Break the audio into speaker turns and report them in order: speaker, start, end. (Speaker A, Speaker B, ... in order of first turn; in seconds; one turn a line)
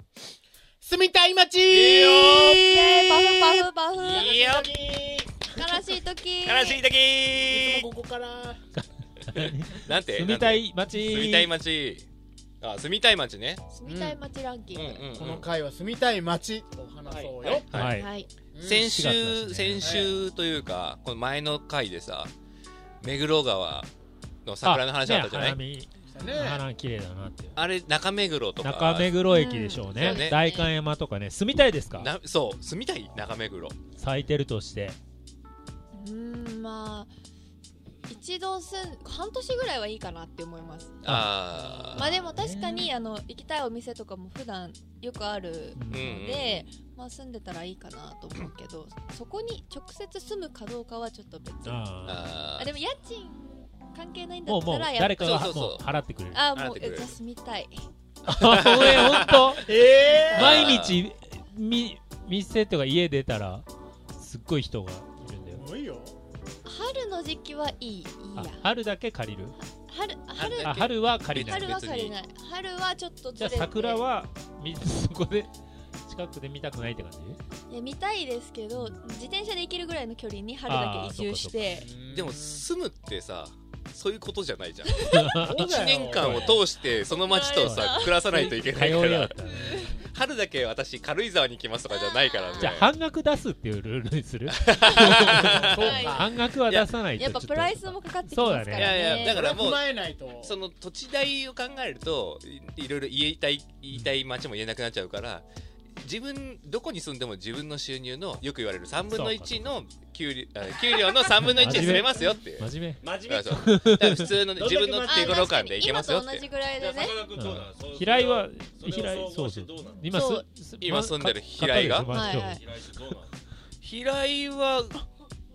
Speaker A: 0.8-4.9
Speaker B: 1.7-2.9
Speaker C: 2.6-4.7
Speaker B: 4.0-5.3
Speaker C: 5.5-6.8
Speaker A: 5.6-5.9
Speaker B: 6.4-7.9
Speaker A: 7.5-8.6
Speaker D: 8.8-11.5
Speaker B: 9.3-12.1
Speaker B: 12.6-13.6
Speaker C: 13.7-15.2
Speaker A: 13.8-14.2
Speaker B: 14.7-15.4
Speaker A: 15.2-17.9
Speaker B: 17.2-17.9
Speaker D: 17.7-18.1
Speaker C: 17.9-18.3
Speaker A: 18.5-19.0
Speaker B: 18.6-22.3
Speaker D: 18.7-19.9
Speaker A: 19.8-20.2
Speaker B: 23.0-23.9
Speaker B: 24.4-25.6
Speaker D: 24.6-27.6
Speaker A: 26.1-26.6
Speaker B: 27.5-29.2
Speaker D: 28.6-32.1
Speaker C: 29.2-30.7
Speaker B: 29.9-30.4
Speaker B: 31.9-33.8
Speaker D: 34.0-35.0
Speaker C: 35.9-37.1
Speaker C: 38.1-41.1
Speaker B: 41.0-42.3
Speaker D: 41.0-41.4
Speaker D: 42.0-42.9
Speaker C: 42.0-51.9
Speaker D: 45.7-46.1
Speaker B: 45.9-46.7
Speaker D: 51.6-52.3
Speaker B: 52.0-52.7
Speaker C: 52.5-55.6
Speaker D: 54.5-56.5
Speaker B: 55.2-55.8
Speaker C: 56.3-57.7
Speaker B: 56.5-57.2
Speaker D: 58.2-59.7
Speaker B: 58.4-59.8
Speaker A: 59.6-60.7
Speaker B: 60.3-61.0
Speaker D: 60.3-65.6
Speaker A: 65.5-66.2
Speaker C: 66.6-68.6
Speaker D: 68.3-69.5
Speaker C: 69.7-70.8
Speaker B: 70.3-72.2
Speaker D: 70.6-71.7
Speaker C: 71.3-74.1
Speaker D: 73.3-75.5
Speaker D: 76.1-77.4
Speaker C: 77.7-81.9
Speaker D: 78.7-79.0
Speaker D: 80.7-81.7
Speaker A: 81.7-82.6
Speaker B: 82.1-92.9
Speaker C: 84.8-85.2
Speaker D: 85.0-86.6
Speaker A: 85.4-86.5
Speaker C: 86.5-88.5
Speaker D: 87.6-89.9
Speaker A: 89.5-90.0
Speaker C: 91.9-92.8
Speaker D: 92.6-98.9
Speaker B: 94.5-96.0
Speaker C: 94.8-96.3
Speaker A: 95.2-96.3
Speaker C: 97.1-99.5
Speaker B: 98.7-105.4
Speaker A: 99.2-100.5
Speaker B: 106.0-112.7
Speaker D: 109.1-109.9
Speaker D: 111.4-114.3
Speaker C: 111.7-112.3
Speaker E: 113.0-113.7
Speaker B: 113.2-116.5
Speaker E: 114.5-115.4
Speaker C: 115.0-117.3
Speaker E: 116.8-120.1
Speaker D: 117.3-122.6
Speaker C: 120.1-120.5
Speaker B: 120.8-122.1
Speaker C: 122.0-122.6
Speaker E: 122.2-123.4
Speaker B: 123.8-125.0